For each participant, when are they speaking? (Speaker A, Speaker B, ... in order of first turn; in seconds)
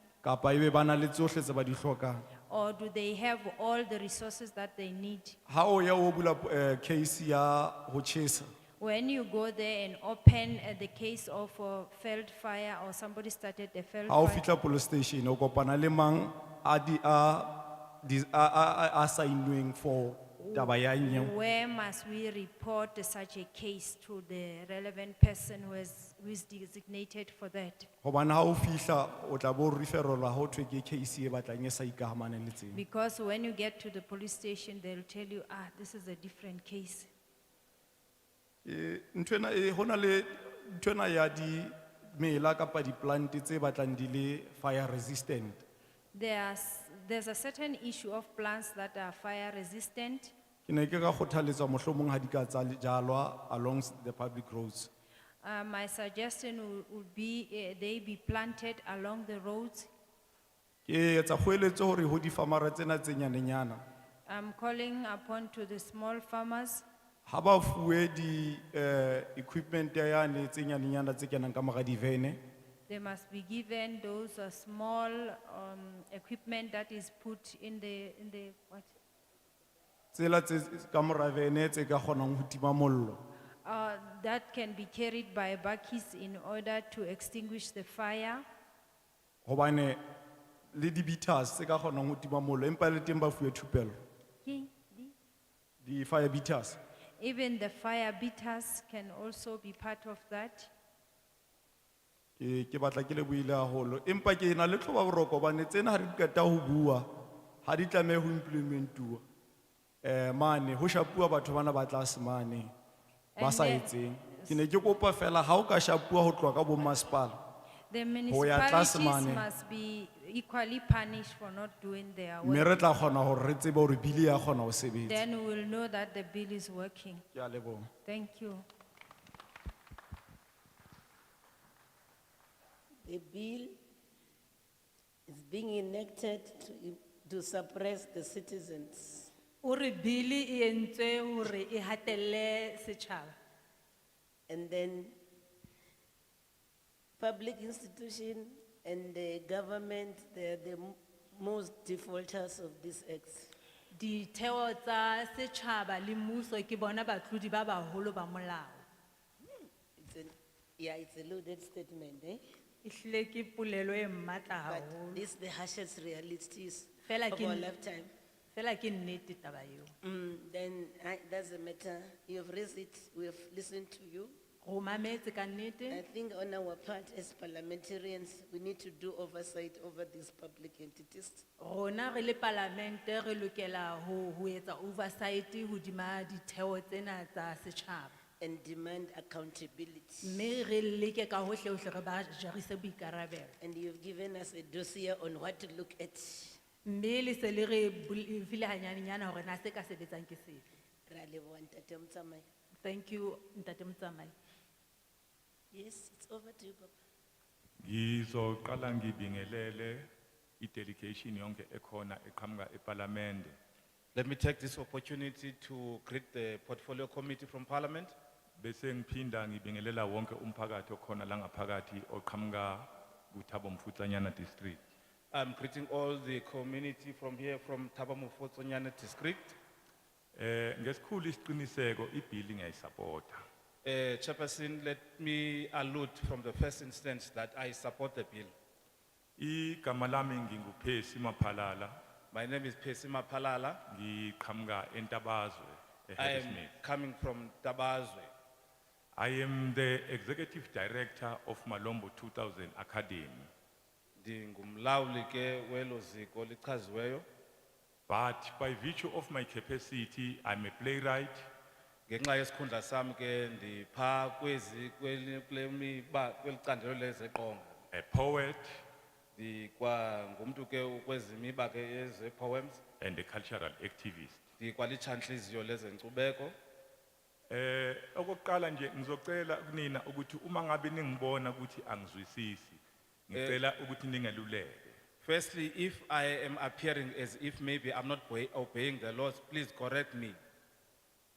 Speaker A: 0.2-2.2, 5.5-8.5, 14.1-21.3, 28.0-32.8, 38.6-45.6, 50.7-54.9, 60.9-63.8, 67.3-72.4, 80.1-83.2, 89.5-90.0, 90.7-93.9, 95.8-96.8, 102.4-107.1, 107.6-109.2, 110.0-112.7, 113.4-117.3, 118.3-119.5, 122.4-125.2, 127.3-127.9
Speaker B: 2.5-5.4, 8.8-14.4, 20.4-27.9, 32.7-37.1, 46.1-50.4, 55.4-59.9, 64.3-66.9, 72.9-79.0, 83.6-88.4, 94.4-95.1, 97.2-100.7, 113.3-114.6, 117.9-122.9, 125.1-127.2, 128.1-128.6
Speaker C: 133.1-133.8, 135.3-139.3, 144.5-145.2, 147.2-153.5, 160.0-162.4, 164.7-168.1, 170.0-174.3, 175.9-181.4, 188.4-190.5, 193.6-196.6, 201.1-202.5, 205.7-206.9
Speaker D: 139.6-143.3, 153.9-158.8, 162.8-165.2, 167.1-167.7, 168.5-169.9, 174.6-176.0, 181.6-188.1, 190.2-193.5, 196.8-200.7, 202.8-204.3
Speaker E: 207.8-210.1, 210.6-213.6, 218.6-224.8, 230.3-233.4, 239.4-241.9, 243.9-246.7, 249.2-253.5, 258.1-261.4, 267.9-268.7, 273.0-274.4, 277.5-285.0
Speaker F: 214.2-218.2, 225.3-229.6, 233.8-238.5, 242.3-243.8, 246.2-248.3, 254.2-257.3, 262.1-267.8, 269.4-272.8, 274.6-276.6, 283.3-283.6, 285.2-290.4